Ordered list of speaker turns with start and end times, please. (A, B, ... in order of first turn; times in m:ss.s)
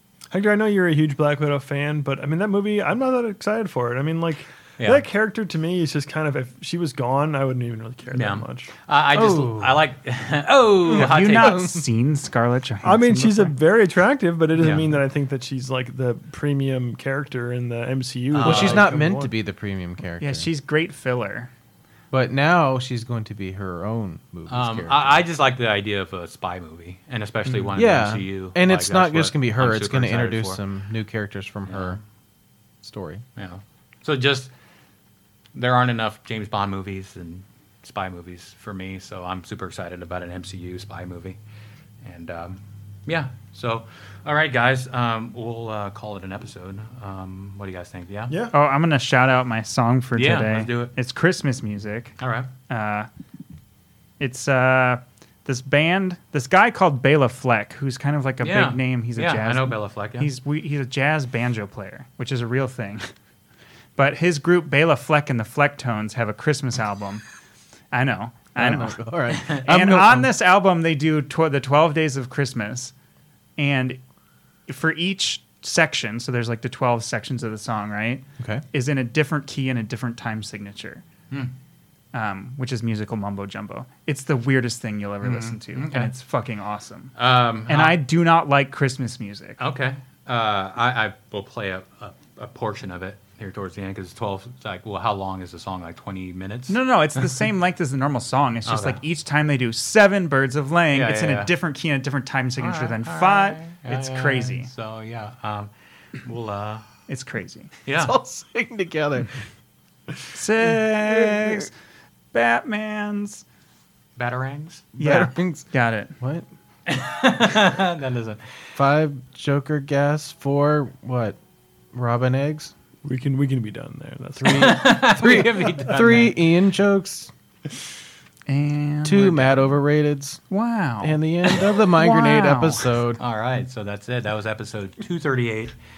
0:00.3-0:08.7 A
0:04.8-0:05.0 B
0:08.1-0:11.6 B
0:09.1-0:09.9 C
0:10.9-0:11.9 C
0:10.9-0:13.6 D
0:12.8-0:19.3 A
0:14.6-0:14.9 B
0:18.3-0:18.8 B
0:18.4-0:20.5 C
0:20.2-0:21.5 D
0:22.1-0:25.2 C
0:24.5-0:30.6 B
0:27.5-0:27.8 A
0:27.8-0:32.0 C
0:31.7-0:32.0 B
0:32.8-0:33.2 C
0:33.4-0:34.5 B
0:35.6-0:41.4 B
0:42.0-0:48.3 B
0:48.5-0:52.2 D
0:50.2-0:50.9 B
0:52.2-0:52.5 B
0:52.7-0:53.1 D
0:54.2-1:03.1 D
0:58.4-1:00.3 B
1:04.0-1:07.2 D
1:07.9-1:12.9 D
1:08.6-1:10.3 C
1:13.6-1:14.0 D
1:14.7-1:21.0 D
1:22.1-1:27.2 D
1:25.2-1:26.1 B
1:27.2-1:28.0 B
1:27.7-1:29.6 D
1:29.6-1:37.3 B
1:36.7-1:44.7 D
1:38.7-1:39.0 B
1:40.9-1:41.5 B
1:42.6-1:45.7 B
1:46.2-1:46.9 B
1:47.1-1:47.7 D
1:47.9-1:48.2 B
1:48.0-1:49.4 C
1:50.3-1:51.7 D
1:51.0-1:51.7 C
1:52.3-1:53.4 D
1:54.2-1:54.9 B
1:55.0-1:55.7 C
1:55.0-1:56.1 D
1:56.2-1:56.5 C
1:56.9-1:58.7 B
1:58.8-2:01.4 C
2:01.9-2:02.7 C
2:03.0-2:05.4 A
2:04.4-2:07.3 C
2:04.4-2:06.4 B
2:08.5-2:09.7 D
2:09.0-2:10.4 C
2:10.5-2:12.9 D
2:11.0-2:13.2 C
2:13.2-2:15.8 B